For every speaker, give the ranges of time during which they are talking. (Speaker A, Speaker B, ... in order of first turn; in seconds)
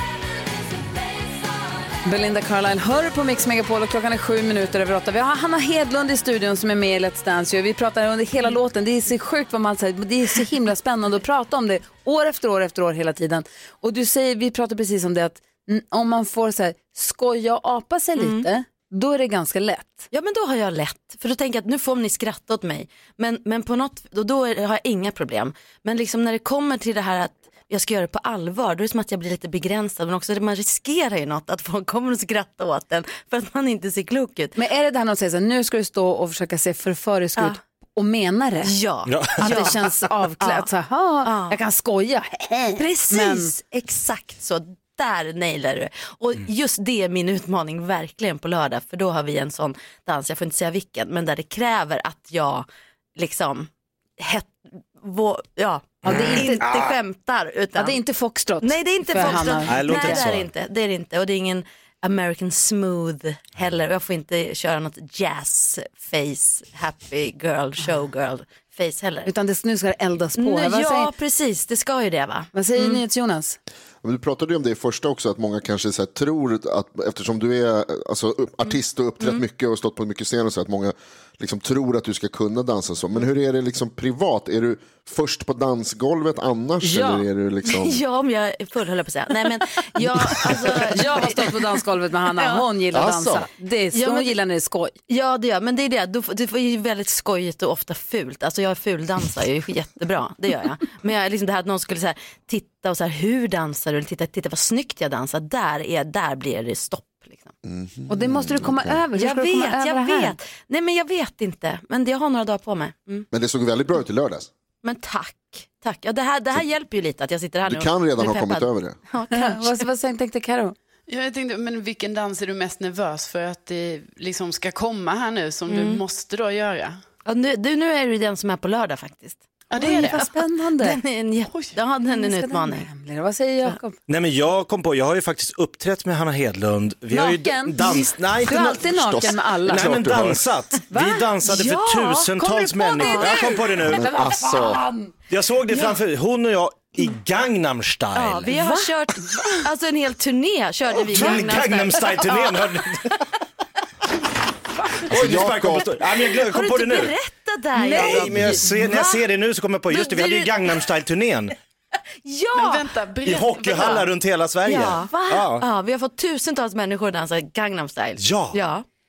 Speaker A: 2.0-20.1, 34.6-38.7, 39.4-43.5, 56.0-56.9, 57.8-60.2, 69.2-71.1, 72.5-73.6, 86.8-87.3, 90.9-95.0, 108.1-110.3, 119.3-120.8, 129.8-131.0, 132.1-134.0, 137.1-140.0, 140.9-141.3, 142.4-145.1, 148.5-148.9, 157.8-158.8
Speaker B: 18.2-18.5, 20.1-34.6, 38.6-39.9, 40.4-40.7, 41.2-41.6, 42.8-58.0, 58.6-69.3, 70.4-73.0, 78.7-79.4, 87.7-92.7, 93.9-94.4, 95.1-107.5, 109.1-113.3, 114.8-119.9, 125.7-126.0, 127.2-132.9, 141.4-143.6, 148.2-152.7, 156.3-159.3, 159.9-160.9, 162.2-162.9, 163.7-164.1, 164.7-168.8
Speaker C: 39.1-39.7, 59.6-60.5, 134.1-144.2, 145.3-148.5, 151.1-153.1, 155.0-157.1, 157.9-161.5, 163.2-165.6, 168.2-168.6
Speaker D: 74.0-88.0, 92.9-93.5, 107.7-109.0, 113.3-114.5, 117.7-119.0, 138.9-140.4, 143.8-144.8, 155.1-156.0
Speaker E: 121.1-127.0, 129.7-130.2, 162.6-164.0